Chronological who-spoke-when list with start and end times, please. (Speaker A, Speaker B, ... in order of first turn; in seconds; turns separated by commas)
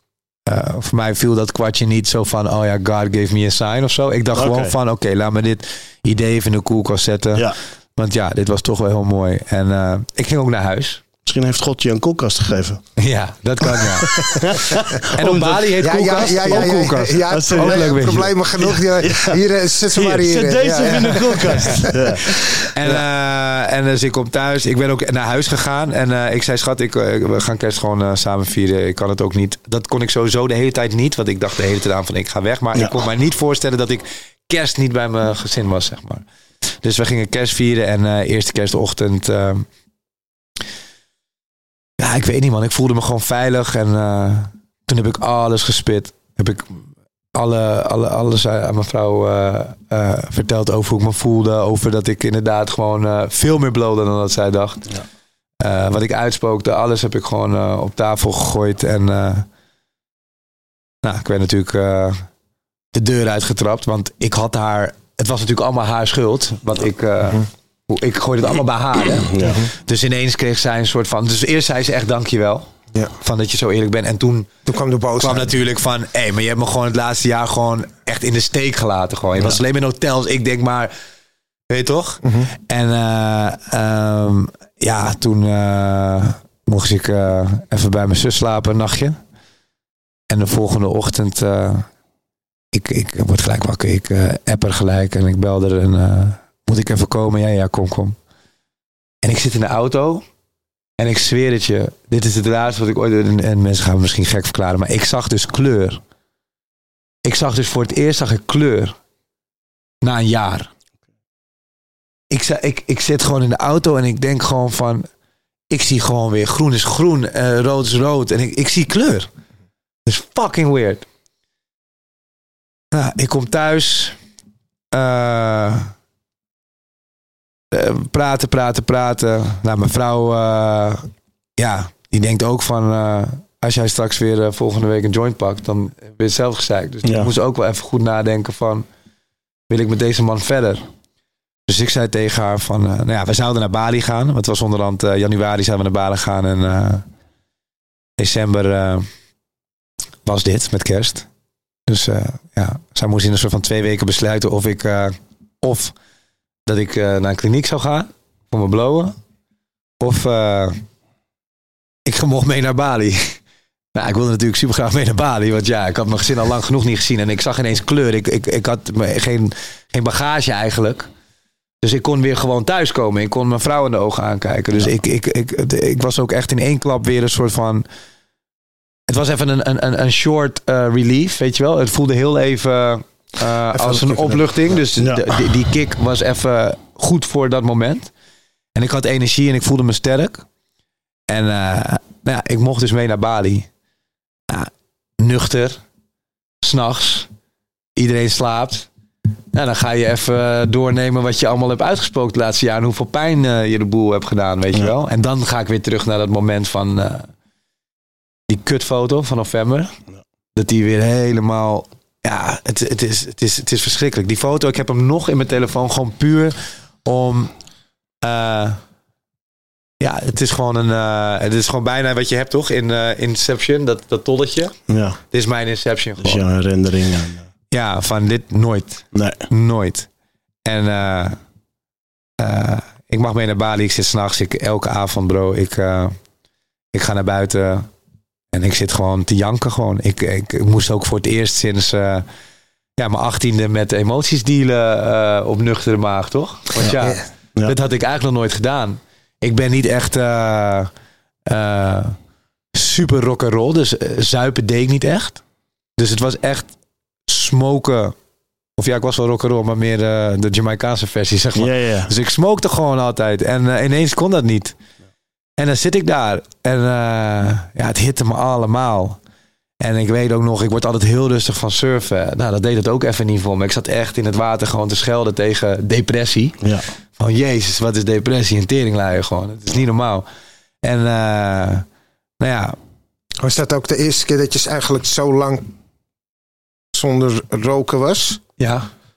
Speaker A: 0.5-11.0, Speaker B: 4.3-4.7, Speaker B: 11.2-12.8, Speaker A: 13.0-14.3, Speaker B: 13.7-19.4, Speaker A: 15.1-18.4, Speaker C: 15.8-22.6, Speaker B: 19.9-22.3, Speaker A: 22.7-36.2, Speaker A: 36.8-39.6, Speaker A: 42.0-54.9, Speaker A: 55.6-59.5, Speaker A: 61.0-62.2, Speaker A: 62.9-72.7, Speaker B: 69.3-69.6, Speaker A: 73.2-74.5, Speaker C: 74.7-75.5, Speaker A: 75.2-80.9, Speaker A: 81.7-89.2, Speaker C: 82.2-82.5, Speaker A: 90.3-91.9, Speaker A: 92.7-98.2, Speaker A: 99.2-100.2, Speaker A: 101.0-106.0, Speaker A: 107.2-108.9, Speaker A: 110.0-110.7, Speaker A: 112.3-115.1, Speaker A: 115.7-119.3, Speaker A: 120.0-121.0, Speaker A: 122.9-124.2, Speaker A: 124.9-125.9, Speaker A: 127.7-138.8, Speaker B: 137.0-137.3, Speaker A: 139.7-140.8, Speaker A: 141.7-147.0, Speaker A: 148.2-149.1, Speaker A: 150.2-151.3, Speaker A: 151.9-155.9, Speaker A: 156.7-159.1, Speaker A: 160.0-160.8, Speaker A: 162.1-163.4, Speaker A: 163.9-171.1, Speaker A: 171.8-177.8, Speaker A: 179.1-188.1, Speaker C: 183.7-184.4, Speaker B: 185.0-185.4, Speaker A: 188.7-190.4, Speaker A: 191.3-193.7, Speaker A: 194.5-195.8, Speaker A: 196.6-197.3, Speaker A: 197.9-198.9, Speaker A: 199.5-207.3, Speaker A: 208.5-209.9, Speaker A: 210.5-217.5, Speaker A: 218.2-218.8, Speaker A: 220.0-224.7, Speaker B: 224.9-225.2, Speaker A: 225.3-226.4, Speaker B: 226.2-227.4, Speaker A: 227.7-230.1, Speaker B: 229.1-229.4, Speaker A: 230.6-231.4, Speaker A: 232.4-236.1, Speaker A: 236.9-237.9, Speaker A: 238.5-242.2, Speaker A: 243.0-250.9, Speaker C: 247.0-247.2, Speaker A: 251.5-252.2, Speaker A: 252.7-255.4, Speaker A: 256.0-256.7, Speaker A: 257.3-258.1, Speaker A: 258.8-264.7, Speaker B: 261.6-262.1, Speaker A: 265.6-269.2, Speaker A: 269.8-276.6, Speaker A: 277.2-280.2, Speaker A: 280.8-281.9, Speaker A: 282.4-282.8, Speaker C: 283.4-285.7, Speaker C: 286.9-288.4, Speaker A: 288.6-288.9